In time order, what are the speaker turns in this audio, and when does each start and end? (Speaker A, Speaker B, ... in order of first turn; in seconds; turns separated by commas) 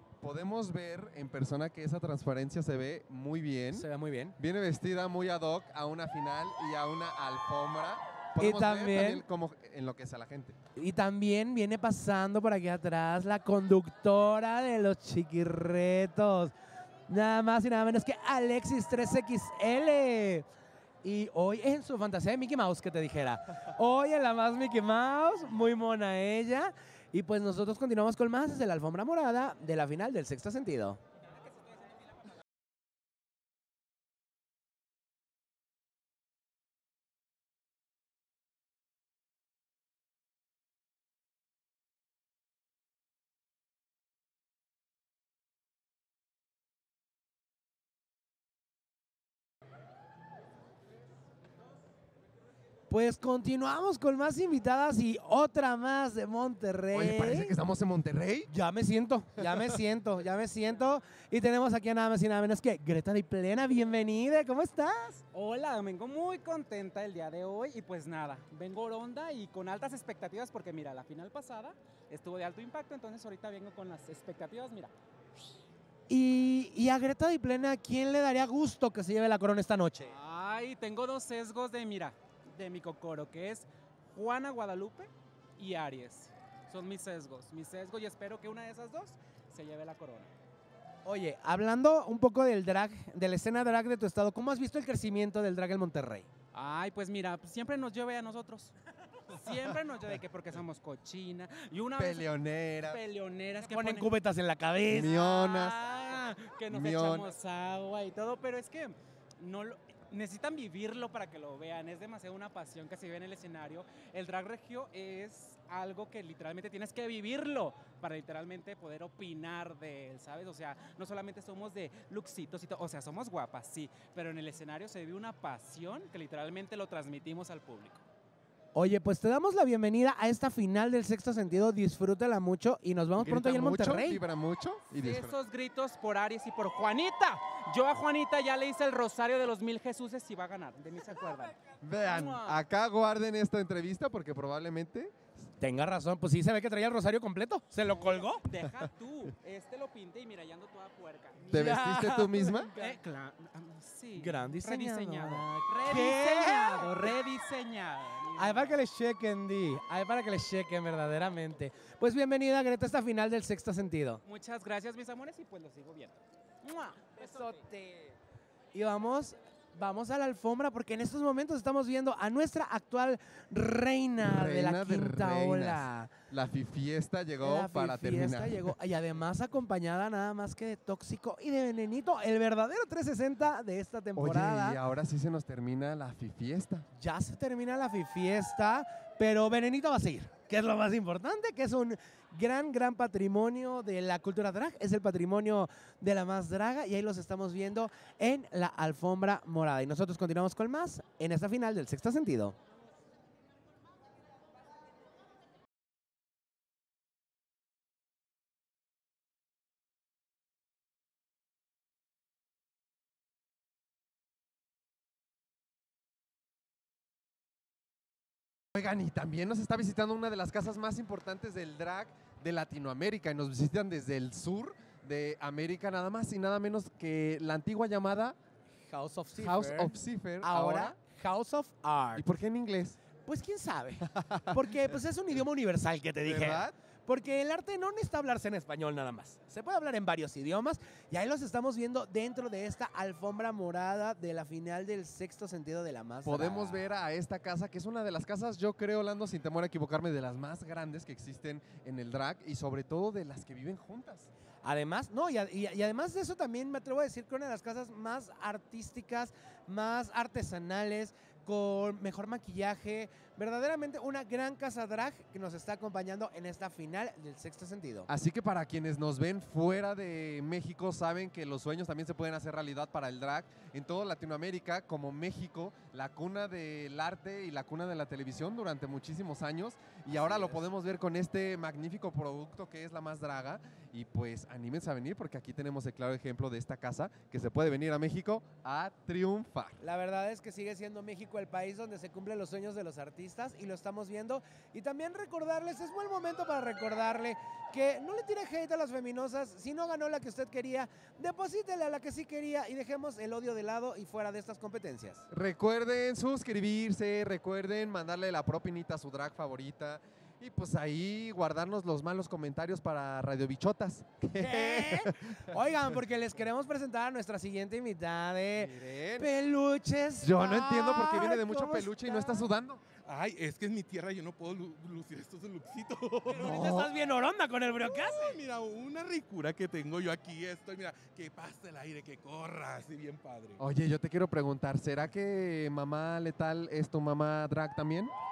Speaker A: 0.2-3.9, Speaker B: 3.7-4.3, Speaker A: 4.4-10.6, Speaker B: 8.4-9.2, Speaker B: 10.8-16.5, Speaker B: 17.1-20.4, Speaker B: 21.0-31.0, Speaker B: 52.9-57.5, Speaker A: 56.9-58.5, Speaker B: 58.5-65.2, Speaker A: 59.4-59.7, Speaker C: 65.3-74.9, Speaker B: 76.1-80.1, Speaker C: 80.0-90.3, Speaker B: 91.0-96.3, Speaker C: 96.5-98.7, Speaker C: 99.3-102.3, Speaker A: 101.9-103.0, Speaker C: 102.8-104.1, Speaker B: 103.6-105.3, Speaker A: 104.9-105.8, Speaker C: 105.1-128.0, Speaker A: 106.7-107.3, Speaker B: 128.7-134.2, Speaker A: 133.2-135.3, Speaker C: 134.9-142.6, Speaker A: 141.8-145.3, Speaker B: 145.6-148.4, Speaker C: 148.0-158.8, Speaker A: 151.4-152.7, Speaker B: 151.4-152.9, Speaker B: 154.2-157.2, Speaker B: 158.3-164.2, Speaker C: 164.2-168.1, Speaker B: 167.2-167.6, Speaker B: 168.7-176.1, Speaker A: 174.2-178.7, Speaker B: 177.4-184.8, Speaker A: 184.2-186.8, Speaker B: 186.9-202.6, Speaker A: 218.7-228.3, Speaker B: 228.9-232.2, Speaker A: 229.3-231.0, Speaker A: 232.1-233.0, Speaker B: 233.2-246.8, Speaker A: 234.1-234.9, Speaker A: 236.2-236.7, Speaker A: 246.2-254.3, Speaker B: 254.6-268.1, Speaker A: 268.1-289.8, Speaker B: 280.1-280.6, Speaker B: 289.8-305.2, Speaker A: 305.3-315.1, Speaker B: 314.4-322.4, Speaker A: 318.6-319.3, Speaker A: 320.2-322.8, Speaker D: 323.0-326.8, Speaker B: 326.3-328.4, Speaker A: 326.3-326.9, Speaker D: 327.8-333.6, Speaker A: 333.6-338.1